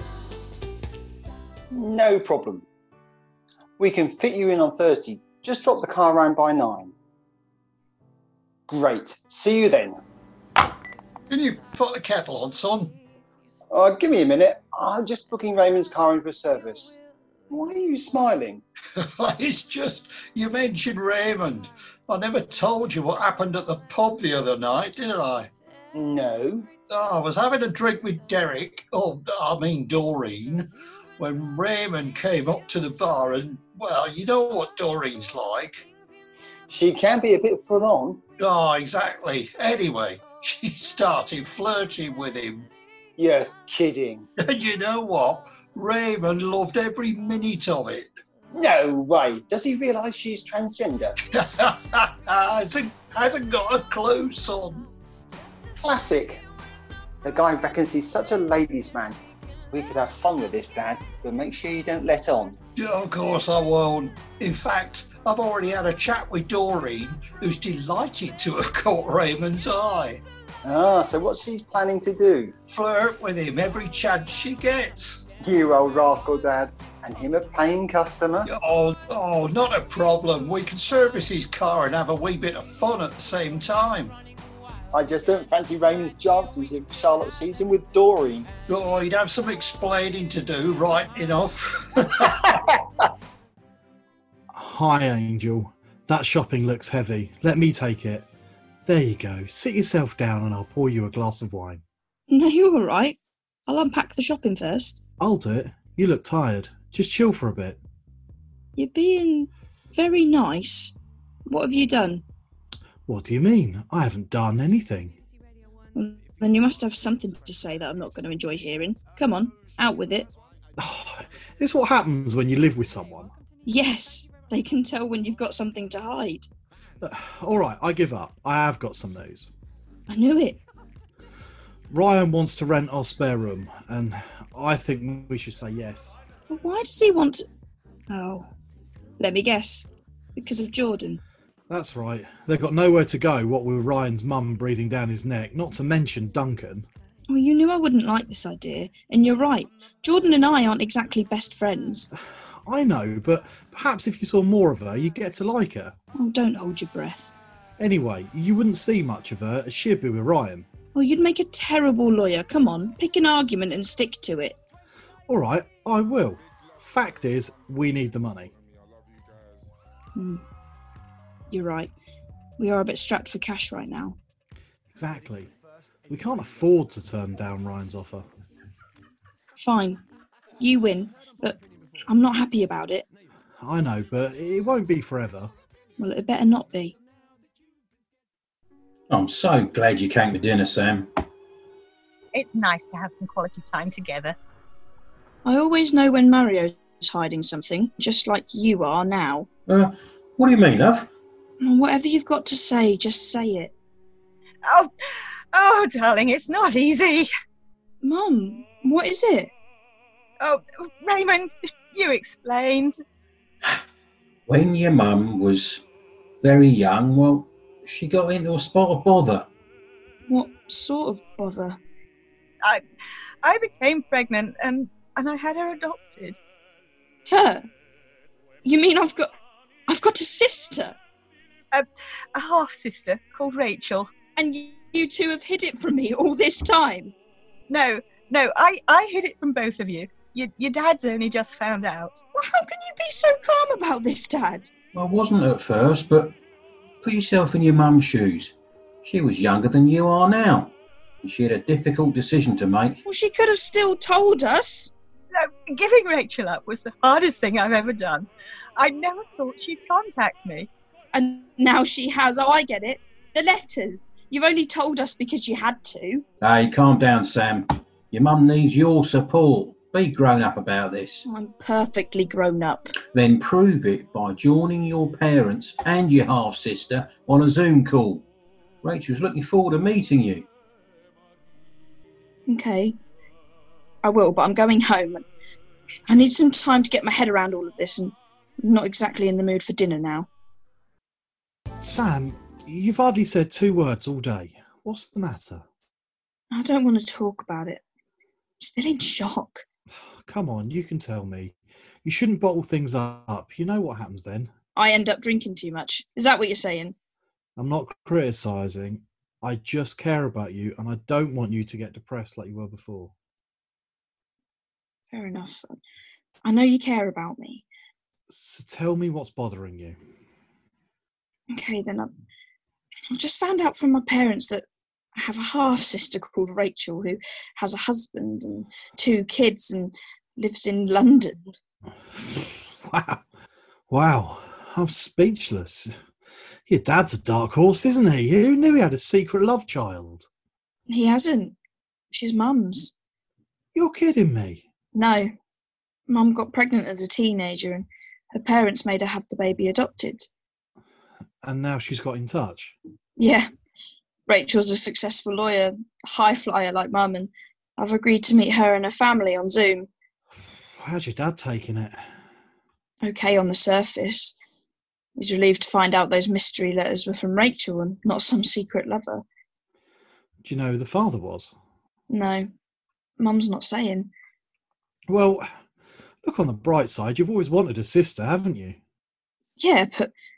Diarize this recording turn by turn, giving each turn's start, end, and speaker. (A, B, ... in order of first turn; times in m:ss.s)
0:01.7-0:02.6 A
0:03.8-0:06.9 A
0:08.7-0:10.0 A
0:11.3-0:13.0 B
0:13.7-0:17.0 A
0:17.5-0:18.6 A
0:19.0-0:25.5 B
0:25.9-0:26.7 A
0:26.9-0:30.7 B
0:31.2-0:35.8 B
0:36.7-0:38.2 A
0:38.4-0:42.7 B
0:43.2-0:44.2 A
0:44.4-0:48.1 B
0:48.5-0:51.2 A
0:51.3-0:54.9 B
0:55.8-0:56.4 A
0:57.2-0:59.2 A
0:59.7-1:02.6 A
1:02.8-1:10.2 B
1:10.6-1:12.5 A
1:12.7-1:15.2 B
1:15.4-1:18.5 A
1:18.4-1:24.2 B
1:24.9-1:28.5 A
1:28.7-1:32.5 B
1:34.5-1:38.3 C
1:38.8-1:41.8 C
1:42.3-1:45.0 D
1:45.2-1:47.8 C
1:48.8-1:50.9 D
1:51.5-1:52.2 D
1:53.1-1:55.2 C
1:55.9-2:00.3 D
2:00.8-2:03.3 C
2:03.6-2:06.5 D
2:07.0-2:09.5 C
2:10.1-2:10.6 D
2:11.9-2:16.2 C
2:16.5-2:17.4 D
2:18.1-2:18.5 D
2:19.2-2:21.2 D
2:21.7-2:26.9 C
2:27.3-2:32.1 D
2:32.6-2:35.9 C
2:36.2-2:37.3 D
2:37.8-2:40.6 C
2:40.9-2:44.6 D
2:45.3-2:48.5 C
2:50.2-2:50.4 D
2:51.5-2:51.9 D
2:52.6-2:54.2 D
2:54.9-2:55.5 C
2:56.1-2:58.2 C
2:59.6-3:00.0 D
3:00.6-3:03.0 D
3:03.6-3:05.5 C
3:06.0-3:06.9 D
3:09.1-3:11.1 E
3:12.3-3:14.4 F
3:15.4-3:19.5 D
3:19.7-3:21.1 E
3:21.6-3:23.7 D
3:24.6-3:24.9 F
3:25.5-3:27.3 F
3:28.0-3:29.5 D
3:30.4-3:32.9 F
3:34.5-3:35.8 E
3:36.4-3:39.5 E
3:40.3-3:41.8 D
3:43.4-3:46.4 F
3:47.3-3:47.6 D
3:48.6-3:49.3 D
3:49.9-3:51.0 D
3:51.7-3:54.1 F
3:54.4-3:57.1 D
3:57.7-4:02.2 F
4:02.4-4:04.7 D
4:04.9-4:06.3 E
4:07.0-4:13.0 E
4:13.0-4:14.9 D
4:15.3-4:20.7 F
4:21.1-4:26.2 D
4:26.4-4:31.2 E
4:31.2-4:32.9 D
4:33.1-4:38.2 E
4:38.8-4:40.4 E
4:42.5-4:42.9 D
4:44.0-4:45.2 D
4:46.1-4:50.3 D
4:51.8-4:55.6 C
4:56.5-4:57.8 D
4:58.6-4:59.6 D
5:00.2-5:04.5 C
5:04.8-5:06.9 D
5:07.6-5:13.1 C
5:15.0-5:15.8 D
5:16.4-5:17.6 D
5:18.3-5:20.0 C
5:21.5-5:22.1 D
5:23.1-5:31.6 D
5:32.2-5:33.2 C
5:33.9-5:35.9 C
5:36.7-5:40.3 C
5:40.9-5:41.5 D
5:42.1-5:42.9 D
5:43.7-5:44.6 C
5:44.9-5:45.3 D
5:46.1-5:50.3 D
5:51.4-5:52.7 C
5:53.2-5:53.5 D
5:54.3-5:59.9 D
6:00.8-6:02.0 C
6:03.0-6:04.4 D
6:05.2-6:09.2 D
6:10.4-6:11.5 C
6:12.1-6:12.5 D
6:13.2-6:14.1 D
6:15.1-6:15.5 C
6:16.2-6:18.8 C
6:19.6-6:20.1 D